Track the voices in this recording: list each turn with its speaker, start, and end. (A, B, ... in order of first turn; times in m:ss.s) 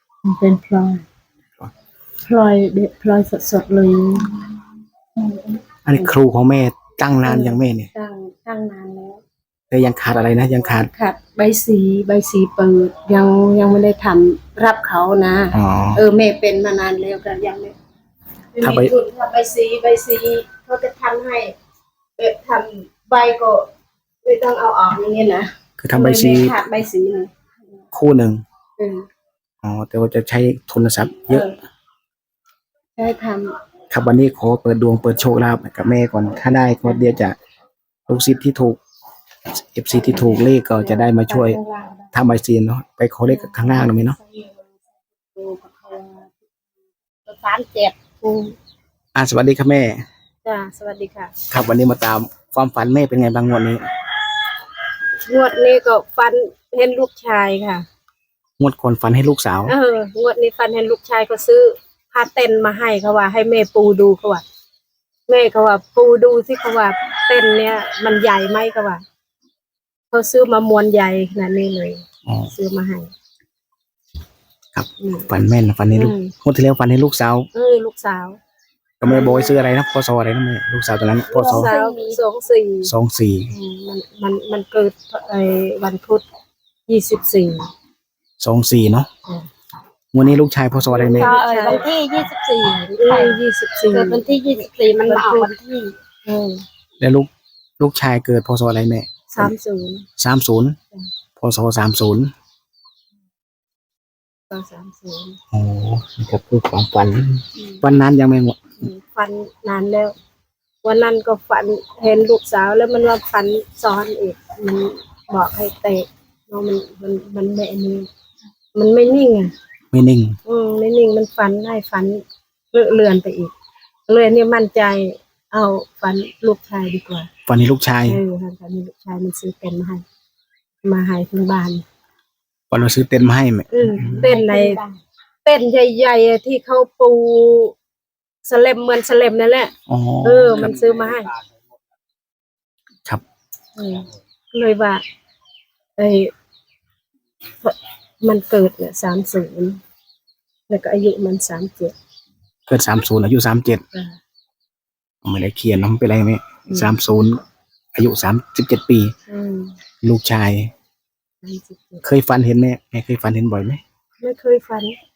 0:00.2-0:01.0 A
0:02.2-0:04.4 A
0:05.2-0:06.1 A
0:05.8-0:07.9 B
0:07.2-0:09.2 A
0:09.7-0:10.9 B
0:10.8-0:17.7 A
0:15.5-0:16.0 B
0:18.5-0:21.5 A
0:18.6-0:18.9 B
0:22.2-0:23.6 A
0:24.2-0:27.3 A
0:25.8-0:26.6 B
0:27.9-0:28.4 B
0:28.8-0:29.0 A
0:29.6-0:31.5 B
0:31.3-0:31.6 A
0:33.0-0:33.5 A
0:33.9-0:37.4 B
0:38.1-0:38.8 B
0:39.5-0:41.6 B
0:40.1-0:42.1 A
0:42.1-0:44.2 B
0:43.3-0:46.3 A
0:47.3-0:48.5 A
0:49.1-0:50.0 B
0:50.4-0:51.3 A
0:51.5-0:53.8 B
0:55.2-0:57.8 A
0:58.6-0:59.7 B
0:59.6-1:04.4 A
1:05.3-1:09.0 A
1:10.1-1:13.1 A
1:12.2-1:12.5 B
1:14.7-1:17.5 B
1:15.0-1:15.3 A
1:15.9-1:16.3 A
1:17.5-1:18.4 A
1:19.0-1:21.7 B
1:19.0-1:19.6 A
1:21.3-1:22.2 C
1:21.3-1:22.9 A
1:22.8-1:23.5 B
1:23.5-1:26.2 A
1:26.9-1:27.7 A
1:28.4-1:29.1 B
1:30.1-1:31.4 B
1:30.9-1:31.8 A
1:31.1-1:33.4 C
1:33.0-1:34.2 A
1:33.9-1:36.0 C
1:35.1-1:35.5 A
1:36.2-1:36.6 A
1:37.0-1:39.5 B
1:39.3-1:40.0 A
1:40.2-1:40.8 B
1:41.4-1:42.3 B
1:44.5-1:45.4 A
1:45.5-1:48.6 B
1:47.6-1:47.8 A
1:48.8-1:50.1 A
1:50.8-1:58.1 A
1:58.7-1:59.5 A
1:59.9-2:00.4 B
2:00.4-2:02.2 A
2:02.7-2:03.5 A
2:04.1-2:07.3 A
2:07.5-2:08.2 B
2:08.0-2:10.0 A
2:10.8-2:11.8 A
2:12.7-2:14.3 B
2:13.7-2:14.8 A
2:14.1-2:15.0 C
2:15.4-2:17.7 A
2:18.4-2:19.7 A
2:19.9-2:20.9 B
2:20.2-2:21.3 A
2:23.8-2:25.0 A
2:26.0-2:26.3 A
2:27.6-2:29.8 A
2:30.7-2:31.9 A
2:32.7-2:33.8 B
2:33.9-2:34.2 A
2:35.2-2:37.4 B
2:36.7-2:36.9 A
2:37.9-2:39.1 B
2:39.3-2:39.8 A
2:40.0-2:40.7 B
2:41.4-2:42.0 A
2:42.0-2:43.8 B
2:44.2-2:44.9 A